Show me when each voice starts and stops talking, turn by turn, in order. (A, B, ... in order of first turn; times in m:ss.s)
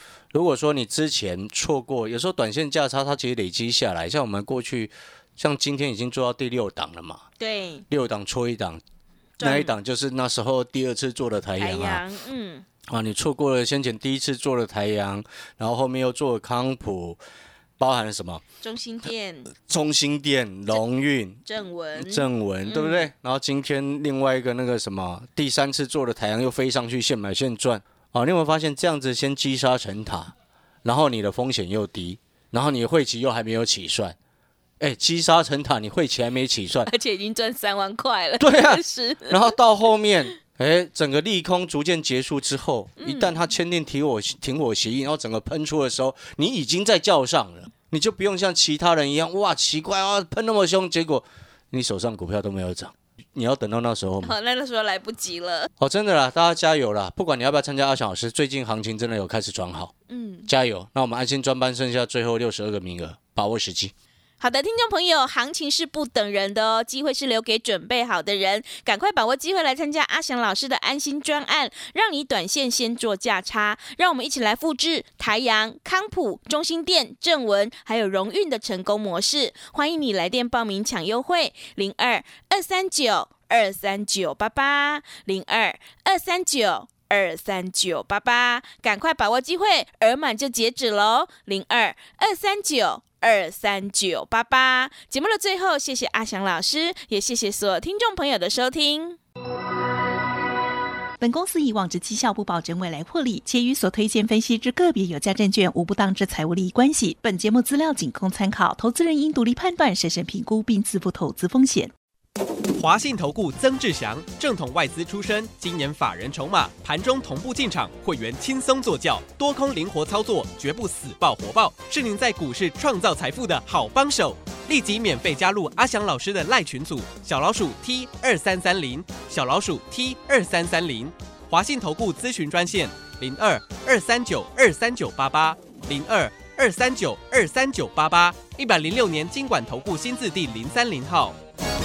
0:00.3-0:07.3 A
0:07.4-0:07.8 B
0:07.9-0:08.8 A
0:09.4-0:09.8 B
0:09.4-0:12.0 A
0:11.6-0:12.7 B
0:12.9-0:17.2 A
0:17.8-0:18.4 A
0:18.6-0:19.5 B
0:19.7-0:21.4 A
0:21.4-0:23.1 B
0:22.0-0:34.2 A
0:34.8-0:36.9 A
0:36.8-0:39.6 B
0:38.4-0:54.4 A
0:43.0-0:43.5 B
0:54.2-0:55.7 B
0:55.8-0:59.9 A
1:00.1-1:00.5 B
1:00.5-1:03.9 A
1:04.4-1:39.2 B
1:41.2-1:51.9 C
1:52.8-2:21.4 D